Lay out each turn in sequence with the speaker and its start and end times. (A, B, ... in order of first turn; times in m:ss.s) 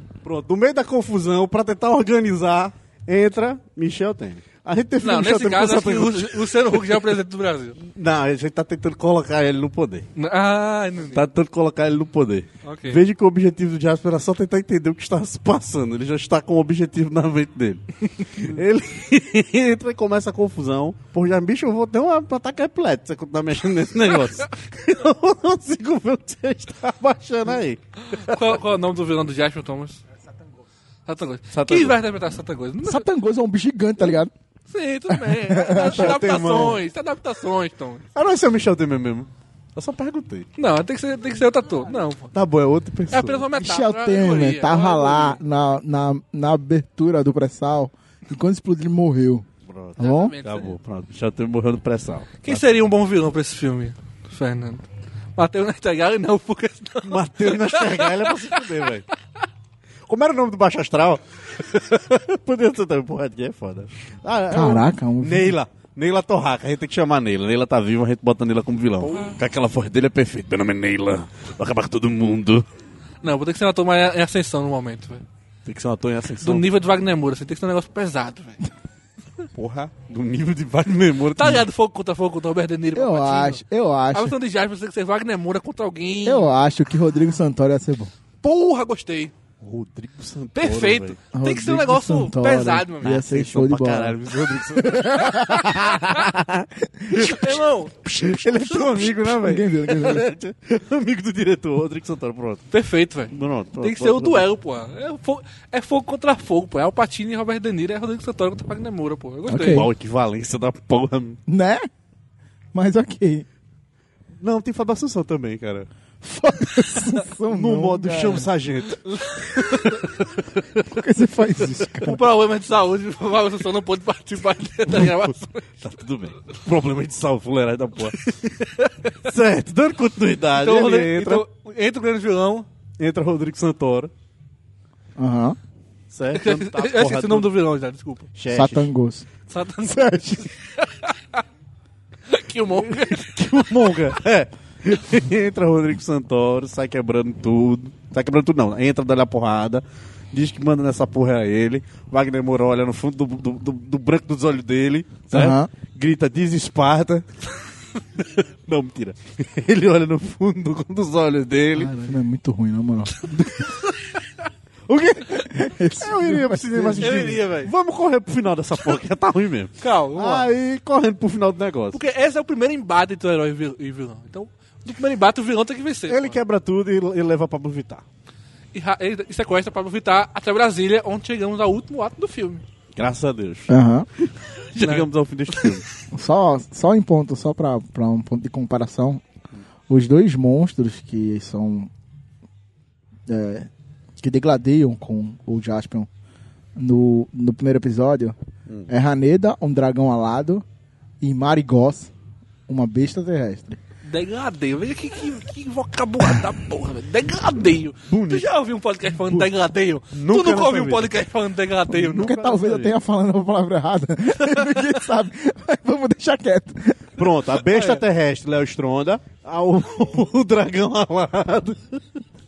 0:00.2-0:06.8 A
0:05.0-0:07.8 B
0:07.8-0:10.1 A
0:10.2-0:11.2 B
0:11.1-0:17.8 A
0:12.6-0:13.0 B
0:18.3-0:28.5 A
0:28.1-0:30.0 B
0:31.0-0:33.0 B
0:31.5-0:32.0 A
0:32.8-0:34.3 C
0:34.7-0:38.0 B
0:35.1-0:36.2 C
0:35.7-0:36.8 A
0:38.1-0:40.5 A
0:40.6-0:42.3 B
0:42.3-0:43.5 A
0:43.1-0:45.4 B
0:43.6-0:49.4 C
0:49.6-0:52.6 A
0:50.0-0:50.3 C
0:50.0-0:50.8 B
0:52.4-0:58.6 B
0:57.0-0:59.0 A
1:00.1-1:12.6 A
1:04.5-1:05.5 C
1:09.0-1:09.4 B
1:13.2-1:15.2 B
1:15.6-1:16.6 A
1:16.4-1:18.6 B
1:19.5-1:21.6 A
1:21.4-1:26.5 B
1:22.9-1:24.3 C
1:26.2-1:28.1 C
1:28.4-1:29.3 B
1:29.6-1:31.2 A
1:30.5-1:33.2 B
1:31.3-1:34.2 C
1:33.0-1:42.6 A
1:34.8-1:35.7 C
1:36.8-1:37.3 C
1:37.2-1:38.0 B
1:38.6-1:39.1 B
1:39.4-1:40.3 C
1:42.7-1:49.9 B
1:43.3-1:44.4 A
1:49.5-1:49.9 C
1:49.6-1:51.4 A
1:51.5-1:51.9 C
1:52.7-1:53.4 C
1:54.4-1:55.9 A
1:56.2-1:58.5 C
1:57.5-1:59.0 A
1:59.0-2:00.1 B
1:59.5-2:00.0 A
2:00.6-2:00.8 A
2:00.9-2:02.2 C
2:02.0-2:05.8 B
2:05.8-2:08.2 A
2:08.2-2:09.1 B
2:09.2-2:11.4 A
2:10.6-2:12.6 B
2:13.0-2:14.1 A
2:15.2-2:15.6 C
2:16.1-2:17.5 A
2:16.3-2:18.3 B
2:18.4-2:18.9 A
2:18.5-2:19.2 C
2:19.5-2:21.4 B
2:19.8-2:20.5 C
2:22.3-2:24.1 B
2:22.8-2:37.3 A
2:35.3-2:35.7 C
2:38.2-2:41.9 A
2:41.7-2:43.1 C
2:43.3-2:44.2 B
2:44.9-2:45.5 A
2:45.4-2:47.2 C
2:46.0-2:52.0 A
2:47.0-2:47.7 B
2:49.8-2:50.5 B
2:51.9-2:56.4 B
2:56.1-2:58.0 A
2:58.7-3:02.6 B
3:03.0-3:03.7 A
3:03.7-3:04.1 C
3:04.7-3:05.8 A
3:04.8-3:05.8 B
3:06.1-3:09.2 C
3:09.9-3:11.9 C
3:13.3-3:13.7 C
3:14.2-3:16.1 C
3:16.8-3:18.4 C
3:18.9-3:20.6 C
3:21.2-3:22.1 C
3:22.7-3:23.8 C
3:24.0-3:32.4 B
3:28.1-3:28.5 A
3:30.1-3:31.1 A
3:32.0-3:32.9 A
3:32.1-3:37.0 C
3:34.5-3:34.9 B
3:37.2-3:42.2 A
3:37.7-3:38.0 B